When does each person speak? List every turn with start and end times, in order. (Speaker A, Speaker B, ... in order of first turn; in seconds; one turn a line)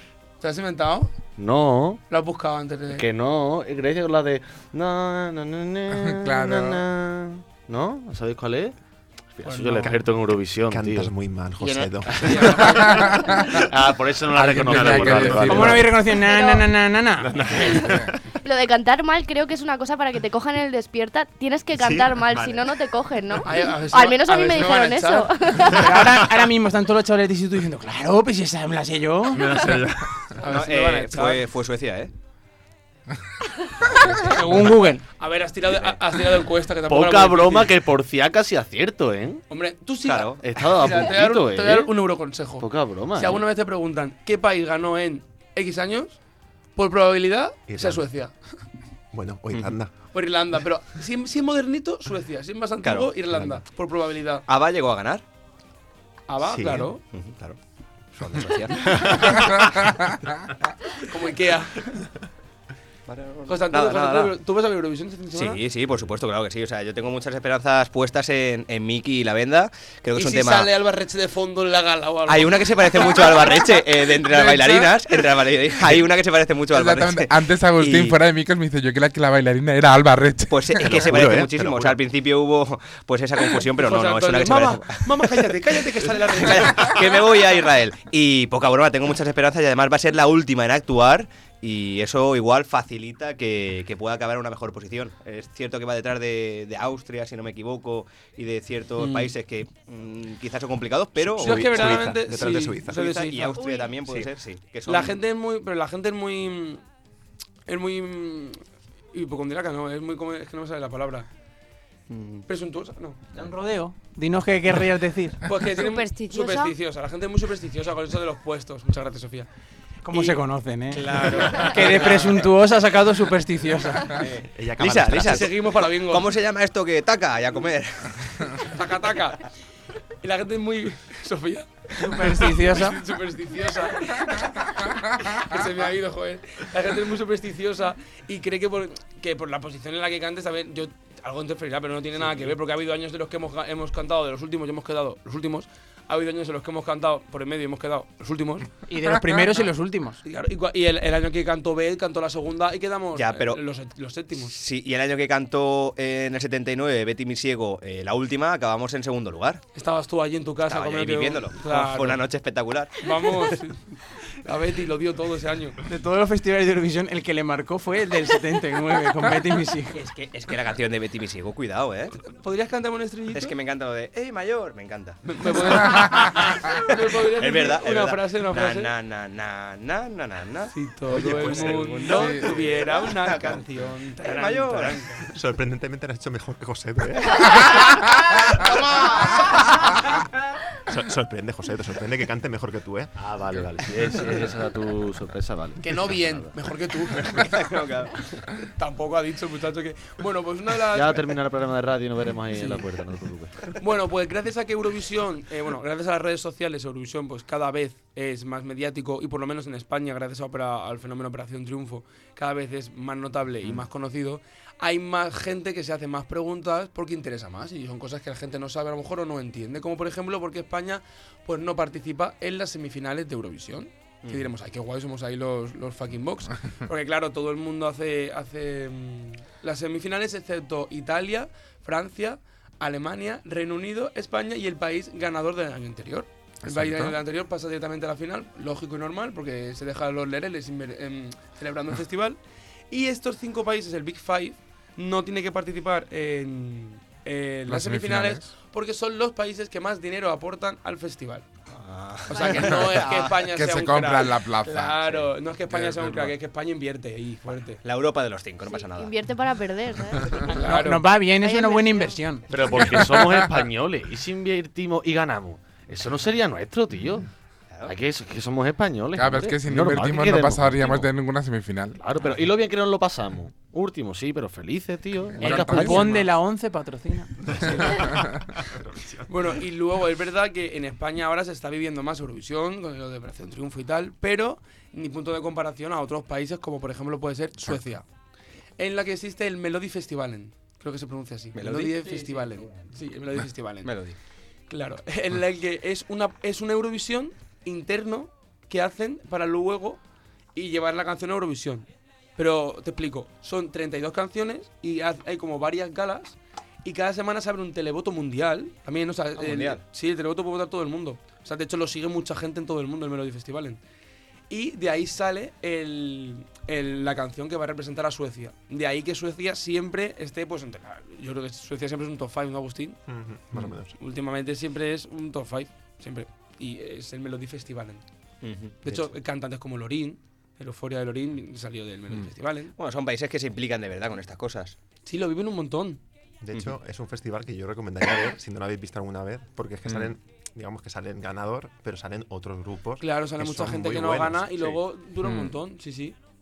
Speaker A: 0.4-1.1
Speaker B: 1.4-2.0
Speaker A: 2.1-3.1
Speaker B: 3.0-8.8
Speaker C: 6.0-6.8
Speaker B: 9.4-11.1
Speaker A: 9.4-10.0
Speaker D: 10.7-12.7
Speaker B: 12.1-15.9
Speaker A: 12.2-13.1
Speaker C: 12.9-13.3
Speaker D: 14.4-15.9
Speaker C: 14.5-15.7
Speaker E: 14.7-17.5
Speaker F: 16.2-16.7
Speaker D: 17.3-18.1
Speaker B: 17.5-17.9
Speaker F: 18.4-25.8
Speaker D: 21.8-22.7
Speaker A: 23.5-25.6
Speaker E: 25.6-29.7
Speaker D: 26.0-26.2
Speaker D: 29.3-30.1
Speaker A: 30.4-31.5
Speaker G: 30.4-32.1
Speaker E: 34.3-35.1
Speaker A: 35.1-37.7
Speaker B: 36.9-39.5
Speaker A: 39.5-46.2
Speaker G: 40.0-40.4
Speaker B: 40.4-42.0
Speaker B: 42.5-43.4
Speaker A: 46.8-48.3
Speaker D: 47.7-48.1
Speaker D: 49.1-49.9
Speaker A: 50.1-54.5
Speaker G: 52.8-53.1
Speaker D: 53.3-53.6
Speaker G: 54.5-55.2
Speaker A: 56.3-57.0
Speaker D: 56.4-56.9
Speaker G: 57.1-57.6
Speaker G: 58.1-59.4
Speaker A: 61.0-62.1
Speaker G: 63.1-64.3
Speaker A: 63.5-65.6
Speaker G: 65.3-70.7
Speaker A: 70.2-75.3
Speaker G: 72.3-78.2
Speaker C: 76.7-80.8
Speaker G: 80.5-102.2
Speaker D: 80.8-82.0
Speaker A: 83.5-87.2
Speaker A: 99.0-99.3
Speaker D: 101.2-103.0
Speaker A: 101.4-104.3
Speaker G: 102.9-105.2
Speaker F: 103.6-103.9
Speaker A: 104.9-106.8
Speaker A: 107.7-111.3
Speaker G: 112.1-112.5
Speaker A: 112.5-113.2
Speaker E: 113.3-115.5
Speaker A: 115.5-119.5
Speaker F: 115.8-116.7
Speaker E: 120.0-124.3
Speaker A: 120.9-122.1
Speaker G: 124.2-128.7
Speaker D: 124.4-125.6
Speaker A: 125.2-126.3
Speaker A: 128.7-129.5
Speaker A: 130.2-134.7
Speaker E: 132.0-133.0
Speaker A: 135.2-148.7
Speaker E: 148.9-150.2
Speaker A: 150.2-154.5
Speaker G: 153.2-153.6
Speaker G: 154.4-159.6
Speaker A: 159.8-162.2
Speaker G: 160.7-163.5
Speaker A: 163.0-165.8
Speaker E: 165.8-170.0
Speaker G: 169.9-172.2
Speaker A: 172.3-173.6
Speaker G: 173.3-175.2
Speaker A: 175.2-178.9
Speaker G: 176.3-183.6
Speaker A: 180.7-185.2
Speaker D: 181.1-182.3
Speaker G: 184.2-185.0
Speaker D: 185.3-188.0
Speaker D: 188.7-189.5
Speaker D: 190.9-193.1
Speaker B: 193.2-196.5
Speaker A: 195.8-197.8
Speaker G: 197.4-198.1
Speaker A: 198.6-201.3
Speaker B: 200.9-203.5
Speaker A: 203.8-242.4
Speaker G: 224.2-224.5
Speaker D: 236.7-237.1
Speaker A: 242.9-251.5
Speaker C: 247.7-248.5
Speaker G: 251.8-253.3
Speaker A: 252.3-257.8
Speaker C: 253.5-255.1
Speaker G: 257.8-259.1
Speaker F: 258.7-260.6
Speaker A: 260.5-261.0
Speaker E: 260.6-262.6
Speaker F: 261.4-262.2
Speaker B: 262.5-267.3
Speaker C: 262.9-263.4
Speaker B: 267.9-271.1
Speaker C: 269.2-272.0
Speaker B: 272.0-276.1
Speaker E: 275.4-277.3
Speaker C: 275.4-276.3
Speaker D: 277.8-278.1
Speaker D: 278.6-279.6
Speaker A: 279.3-288.0
Speaker A: 288.8-293.9
Speaker G: 291.6-292.0
Speaker E: 292.1-292.9
Speaker G: 293.9-294.1
Speaker A: 294.7-300.0
Speaker A: 300.6-313.8
Speaker G: 309.4-309.8
Speaker A: 314.5-323.0
Speaker D: 323.1-323.9
Speaker A: 324.0-328.0
Speaker G: 328.4-329.1
Speaker A: 328.8-332.7
Speaker G: 332.8-334.8
Speaker A: 335.1-336.0
Speaker D: 336.4-344.8
Speaker A: 343.0-346.2